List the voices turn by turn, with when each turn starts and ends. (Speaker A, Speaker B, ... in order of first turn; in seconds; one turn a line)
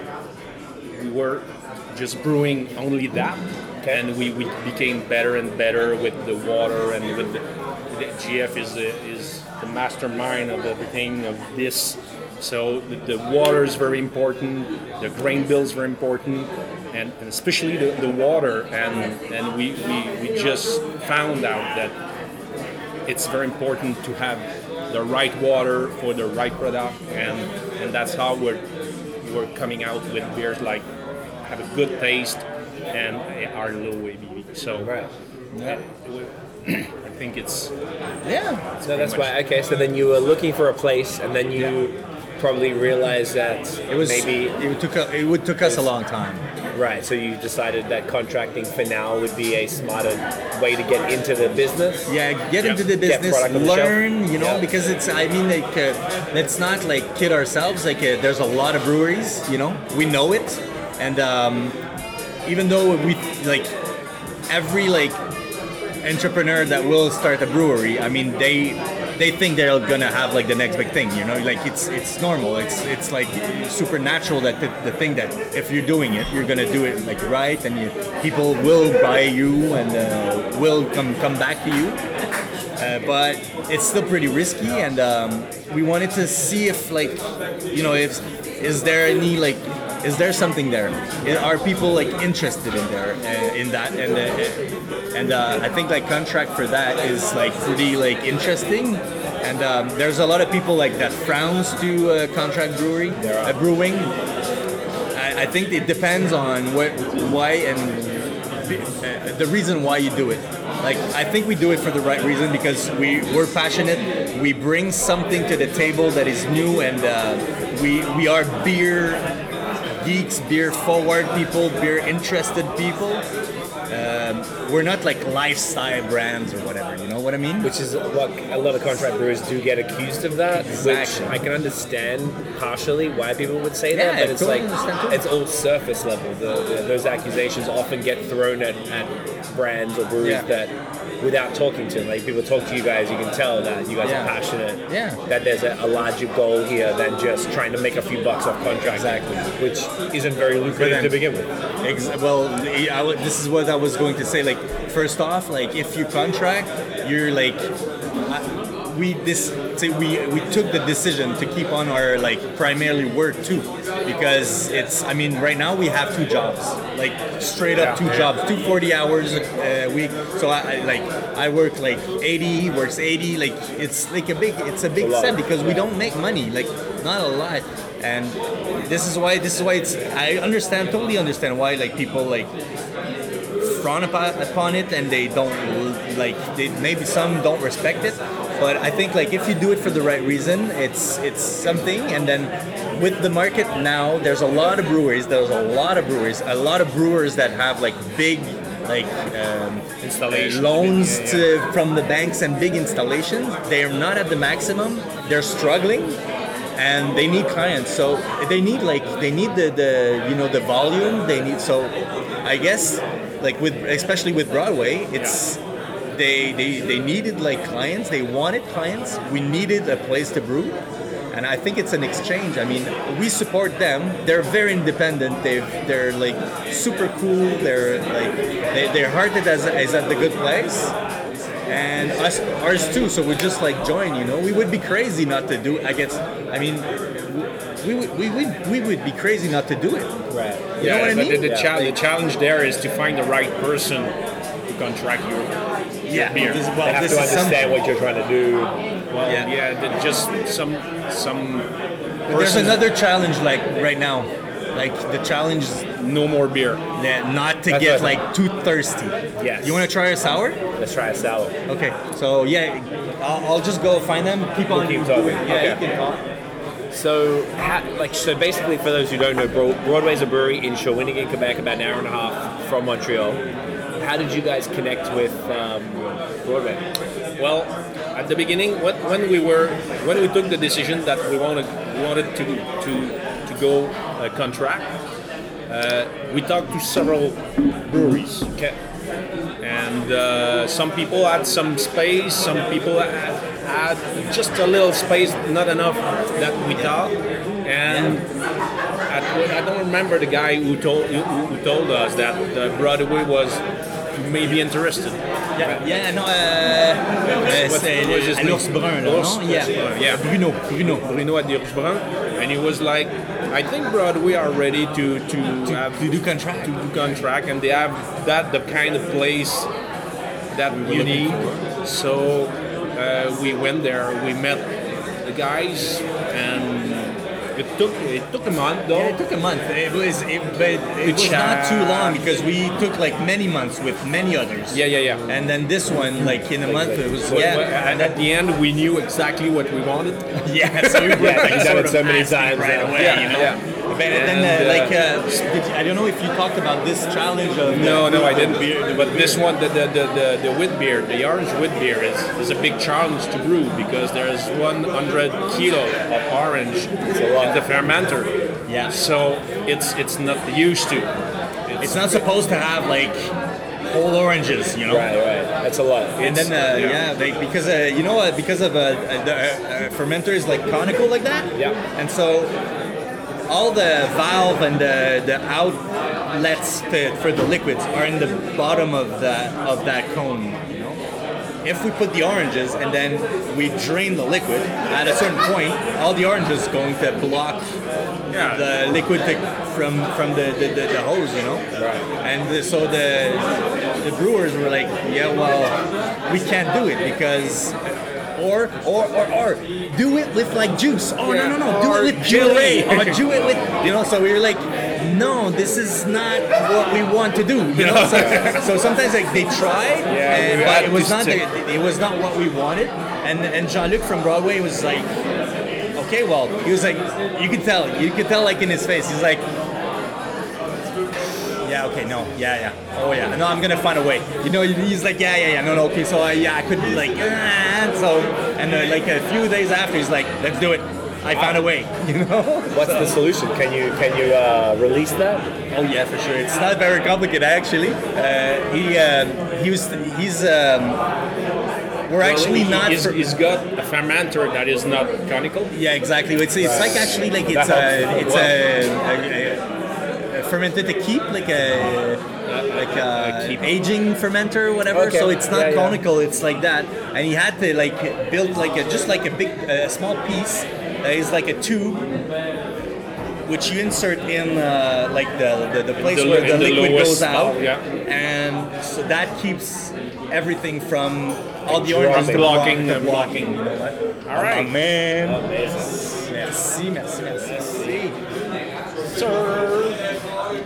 Speaker A: 1.0-22.0
Speaker A: 23.1-28.6
Speaker A: 29.2-30.9
Speaker A: 31.4-34.9
Speaker B: 34.8-35.1
Speaker C: 35.5-35.8
Speaker A: 35.6-37.7
Speaker C: 38.2-38.7
Speaker A: 38.8-39.4
Speaker B: 38.8-44.6
Speaker C: 43.9-46.5
Speaker B: 46.7-52.1
Speaker C: 52.1-61.8
Speaker B: 52.7-54.6
Speaker C: 62.5-63.8
Speaker C: 64.5-65.2
Speaker C: 66.0-82.0
Speaker C: 82.8-104.2
Speaker B: 103.2-103.6
Speaker C: 105.1-119.3
Speaker C: 119.9-123.3
Speaker C: 123.9-127.7
Speaker B: 127.6-151.5
Speaker C: 130.5-131.4
Speaker C: 133.9-135.2
Speaker C: 140.2-140.5
Speaker C: 144.0-144.3
Speaker C: 144.9-145.2
Speaker C: 148.9-149.5
Speaker C: 150.6-151.2
Speaker C: 151.8-157.7
Speaker C: 158.3-182.5
Speaker A: 167.7-168.3
Speaker B: 175.0-175.8
Speaker C: 183.6-206.2
Speaker A: 200.0-201.6
Speaker C: 206.8-220.8
Speaker C: 221.3-231.0
Speaker C: 231.7-240.2
Speaker B: 240.3-242.0
Speaker C: 240.8-241.5
Speaker A: 240.8-244.2
Speaker A: 244.7-245.5
Speaker C: 246.1-247.7
Speaker A: 246.1-246.7
Speaker B: 246.8-248.7
Speaker A: 249.1-251.7
Speaker C: 249.2-249.5
Speaker A: 252.3-252.8
Speaker C: 252.3-255.9
Speaker A: 256.0-256.8
Speaker C: 256.9-260.6
Speaker B: 257.7-258.2
Speaker B: 259.4-259.9
Speaker B: 260.8-261.6
Speaker C: 261.7-266.3
Speaker B: 264.7-265.8
Speaker B: 266.9-273.4
Speaker B: 274.0-276.8
Speaker A: 277.4-284.9
Speaker A: 285.7-288.5
Speaker A: 289.6-298.3
Speaker C: 297.9-298.2
Speaker A: 299.1-303.6
Speaker A: 304.1-305.2
Speaker C: 305.6-311.0
Speaker A: 307.3-319.7
Speaker C: 315.6-316.8
Speaker A: 320.5-324.7
Speaker C: 320.7-321.6
Speaker A: 325.3-329.2
Speaker C: 328.9-338.2
Speaker A: 331.0-332.2
Speaker A: 334.7-335.3
Speaker B: 336.6-337.6
Speaker A: 337.3-340.4
Speaker C: 340.4-349.5
Speaker A: 340.9-341.8
Speaker B: 341.1-343.2
Speaker A: 342.9-345.0
Speaker A: 347.7-358.3
Speaker B: 357.1-357.6
Speaker C: 358.7-359.0
Speaker A: 358.9-361.1
Speaker A: 361.7-362.2
Speaker C: 361.8-363.3
Speaker C: 363.9-365.1
Speaker B: 364.9-366.2
Speaker A: 366.2-367.0
Speaker C: 366.2-372.6
Speaker C: 373.5-381.0
Speaker C: 381.6-387.7
Speaker A: 388.3-388.7
Speaker C: 388.3-391.7
Speaker B: 391.8-392.1
Speaker C: 392.2-415.1
Speaker A: 401.2-403.6
Speaker A: 407.8-408.7
Speaker A: 410.1-411.4
Speaker C: 415.9-419.5
Speaker C: 421.6-433.2
Speaker B: 432.7-435.5
Speaker C: 435.7-441.0
Speaker C: 442.1-443.3
Speaker A: 442.2-445.7
Speaker C: 445.7-462.2
Speaker B: 446.6-448.6
Speaker A: 447.5-448.4
Speaker A: 452.5-453.7
Speaker B: 454.9-456.0
Speaker C: 463.5-475.6
Speaker A: 466.0-467.8
Speaker B: 471.7-472.6
Speaker A: 472.0-473.6
Speaker A: 474.3-474.7
Speaker B: 475.2-476.3
Speaker C: 476.3-478.2
Speaker A: 479.1-480.0